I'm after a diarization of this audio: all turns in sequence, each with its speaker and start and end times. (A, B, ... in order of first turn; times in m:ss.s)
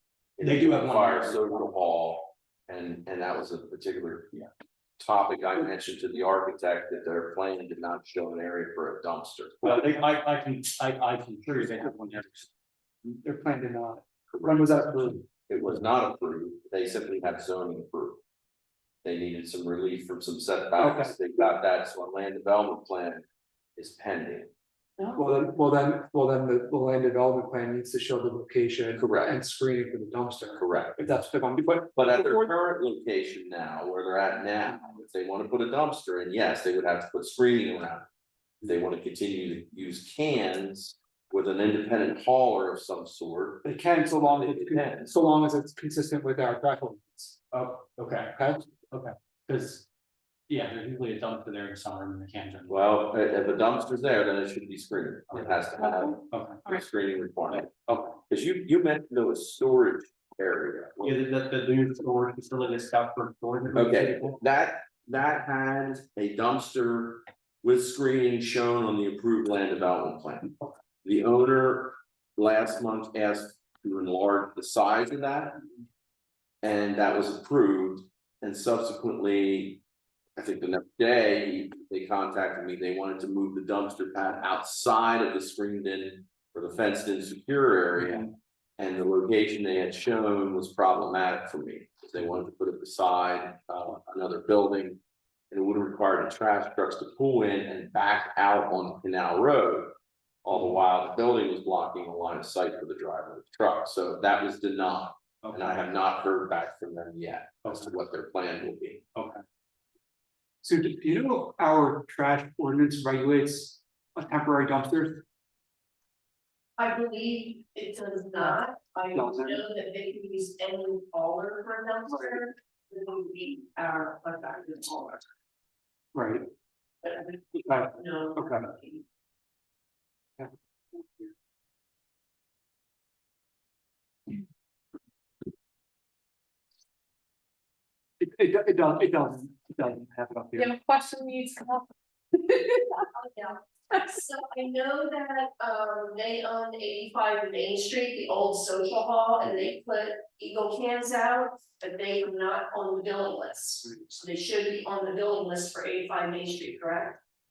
0:00.4-0:04.4 A
0:00.4-0:01.8 B
0:05.0-0:09.6 A
0:09.6-0:12.5 B
0:13.0-0:15.2 C
0:14.3-0:14.7 A
0:15.5-0:18.2 A
0:19.0-0:23.2 A
0:20.8-0:21.1 C
0:23.8-0:24.5 A
0:25.0-0:25.3 D
0:25.2-0:32.5 C
0:29.0-0:29.4 A
0:30.6-0:31.0 A
0:31.9-0:38.1 A
0:38.6-0:45.1 A
0:43.6-0:47.4 C
0:47.5-0:48.4 B
0:48.3-0:48.6 C
0:48.9-0:49.8 B
0:50.5-0:52.8 B
0:52.7-0:57.7 A
0:55.3-0:55.6 B
0:56.3-0:56.6 B
0:57.5-0:58.2 B
0:58.3-1:01.2 A
1:01.0-1:04.4 B
1:03.7-1:15.6 A
1:16.6-1:19.8 A
1:20.4-1:49.0 A
1:45.4-1:45.7 B
1:49.1-1:49.4 B
1:50.6-1:55.2 C
1:56.8-2:05.2 E
1:59.1-1:59.6 C
2:06.1-2:06.5 C
2:07.0-2:09.0 E
2:07.6-2:08.7 C
2:18.2-2:20.7 C
2:20.6-2:23.1 D
2:23.2-2:37.2 E